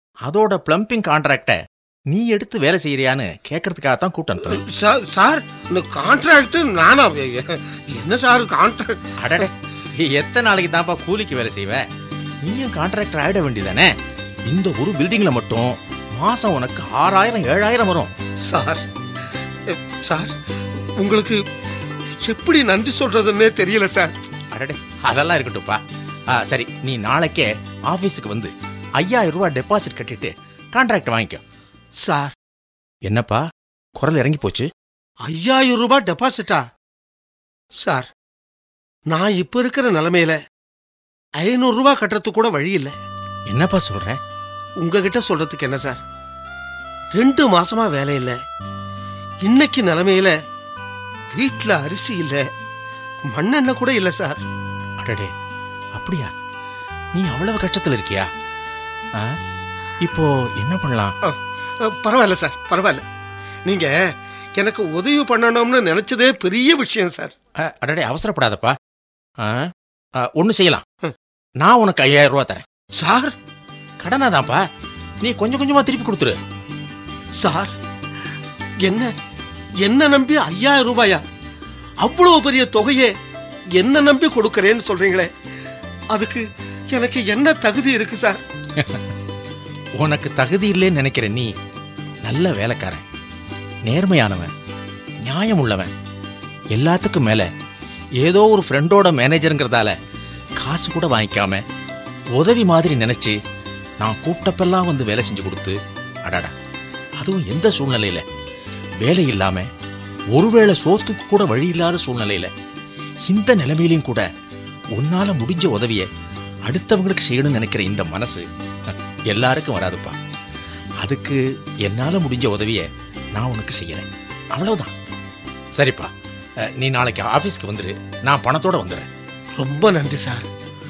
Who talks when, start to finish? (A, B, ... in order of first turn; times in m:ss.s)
0:00.3-0:01.6 A
0:02.1-0:04.6 A
0:04.4-0:09.0 B
0:09.2-0:11.8 A
0:12.4-0:13.9 A
0:14.5-0:18.1 A
0:18.4-0:18.8 B
0:19.7-0:20.3 B
0:21.0-0:21.4 B
0:22.2-0:24.1 B
0:24.5-0:25.8 A
0:26.4-0:31.4 A
0:32.0-0:32.3 B
0:33.0-0:33.4 A
0:34.0-0:34.7 A
0:35.2-0:36.6 B
0:37.8-0:38.1 B
0:39.1-0:40.4 B
0:41.4-0:42.9 B
0:43.5-0:44.2 A
0:44.8-0:46.0 B
0:47.1-0:48.4 B
0:49.4-0:50.4 B
0:51.3-0:52.5 B
0:53.3-0:54.4 B
0:55.0-0:55.3 A
0:55.9-0:56.3 A
0:57.1-0:58.3 A
1:00.0-1:01.1 A
1:01.2-1:03.0 B
1:03.6-1:03.9 B
1:04.6-1:07.3 B
1:07.6-1:08.7 A
1:09.4-1:09.7 A
1:10.2-1:10.8 A
1:11.6-1:12.6 A
1:13.0-1:13.3 B
1:14.0-1:14.6 A
1:15.2-1:16.4 A
1:17.4-1:17.7 B
1:18.8-1:19.1 B
1:19.8-1:21.2 B
1:22.0-1:23.1 B
1:23.8-1:25.3 B
1:26.1-1:28.4 B
1:30.0-1:31.5 A
1:32.2-1:33.0 A
1:33.8-1:34.5 A
1:35.2-1:35.9 A
1:36.7-1:37.5 A
1:38.2-1:39.9 A
1:40.6-1:41.6 A
1:42.4-1:43.4 A
1:44.0-1:45.8 A
1:47.2-1:48.2 A
1:49.0-1:49.7 A
1:50.3-1:52.5 A
1:53.3-1:54.2 A
1:55.0-1:56.0 A
1:56.7-2:00.2 A
2:01.0-2:04.9 A
2:05.8-2:06.1 A
2:06.8-2:09.0 A
2:09.6-2:10.4 B